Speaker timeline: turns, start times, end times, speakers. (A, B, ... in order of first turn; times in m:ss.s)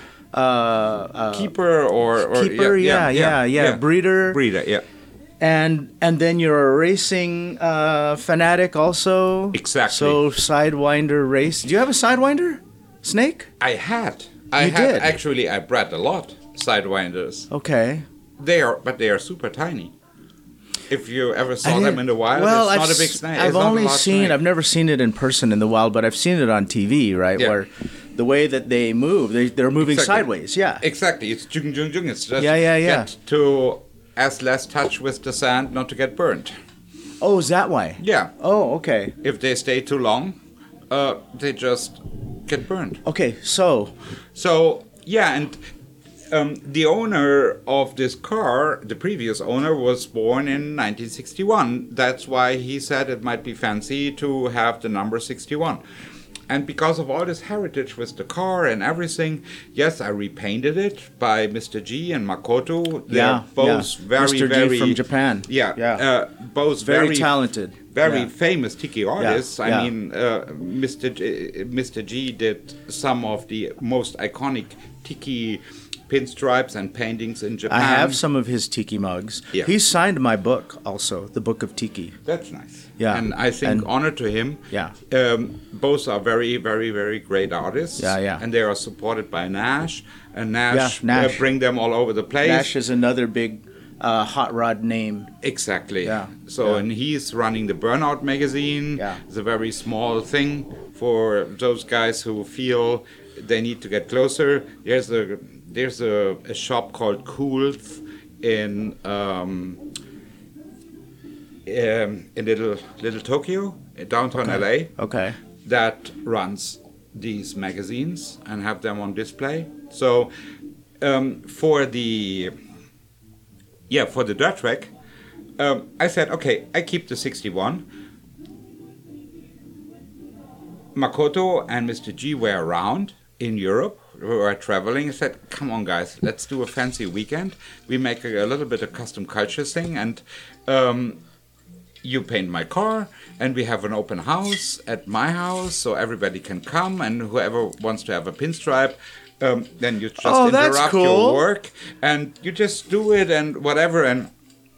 0:00.3-0:01.5 A
0:01.3-0:04.8 B
0:02.2-0:04.4 A
0:05.4-0:13.5 A
0:09.5-0:10.2 B
0:13.6-0:17.5 B
0:14.6-0:15.1 A
0:17.5-0:18.0 A
0:18.4-0:19.9 B
0:20.9-0:24.4 B
0:21.6-0:30.8 A
0:29.8-0:30.3 B
0:30.8-0:36.5 B
0:32.4-0:33.1 A
0:37.2-0:39.2 A
0:38.0-0:38.3 B
0:39.2-0:40.4 B
0:40.9-0:43.0 B
0:43.0-0:43.9 A
0:44.3-0:45.6 B
0:46.3-0:55.8 B
0:56.5-1:07.3 B
1:03.1-1:06.0 A
1:06.8-1:08.3 A
1:07.9-1:18.2 B
1:09.2-1:09.9 A
1:17.7-1:22.2 A
1:22.2-1:32.7 B
1:23.0-1:23.9 A
1:28.0-1:28.4 A
1:30.7-1:31.4 A
1:32.4-1:35.3 A
1:35.4-1:49.8 B
1:36.0-1:36.8 A
1:51.7-1:54.9 B
1:54.4-1:55.4 A
1:55.6-2:00.3 B
2:01.0-2:02.5 B
2:03.9-2:04.9 B
2:05.6-2:07.8 B
2:11.0-2:21.2 B
2:22.0-2:34.3 B
2:30.2-2:31.4 A